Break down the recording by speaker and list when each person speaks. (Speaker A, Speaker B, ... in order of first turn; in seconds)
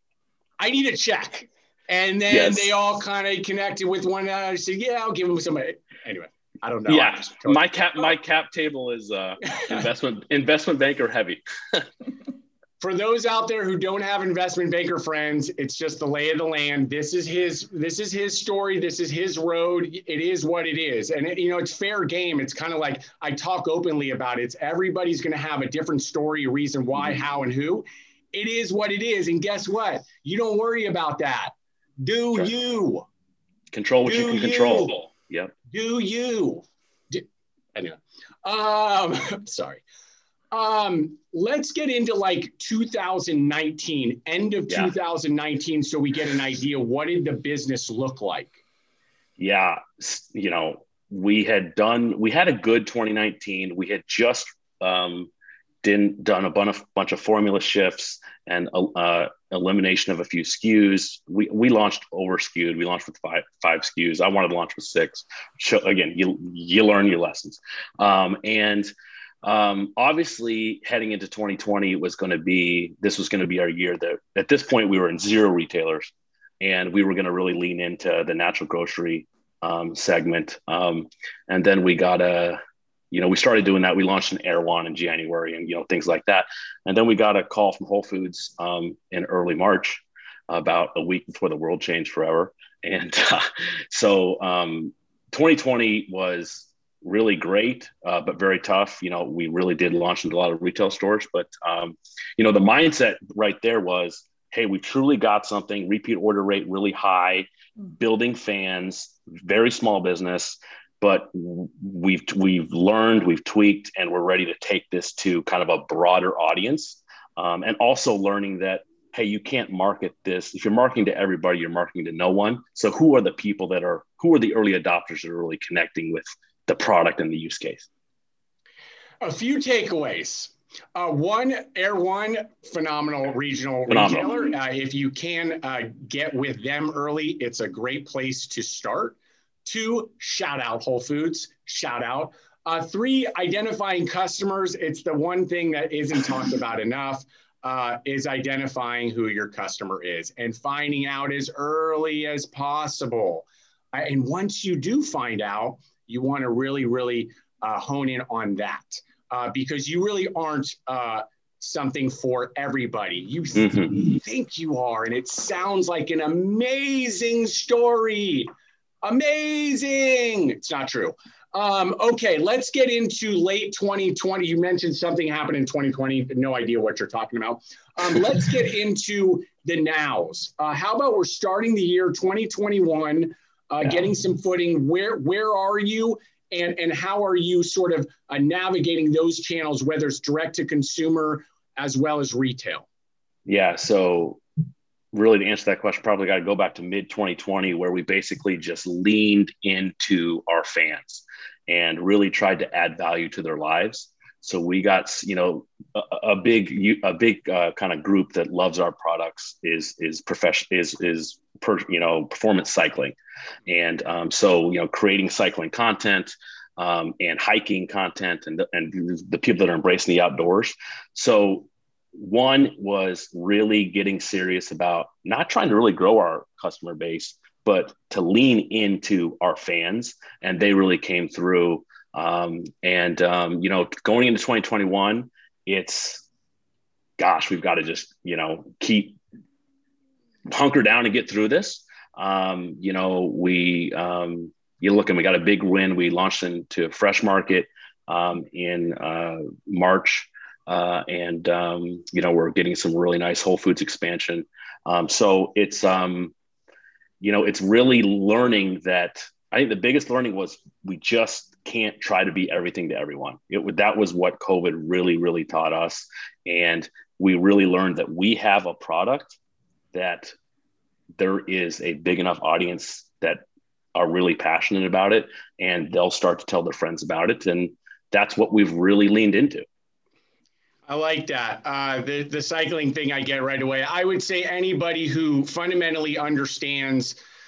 Speaker A: 0.6-7.6, 12.8-33.1, 34.0-35.0, 35.7-39.8, 40.5-48.6, 129.2-168.5, 169.0-192.9, 280.9-287.2
Speaker B: 2.3-2.7, 6.9-11.9, 33.7-35.5, 49.4-55.3, 55.8-68.9, 69.4-82.6, 83.1-127.9, 133.9-134.3, 193.5-194.4, 195.1-213.2, 213.7-236.2, 237.2-239.2, 240.5-256.3, 257.2-269.4, 269.9-270.3, 271.2-273.4, 273.9-279.7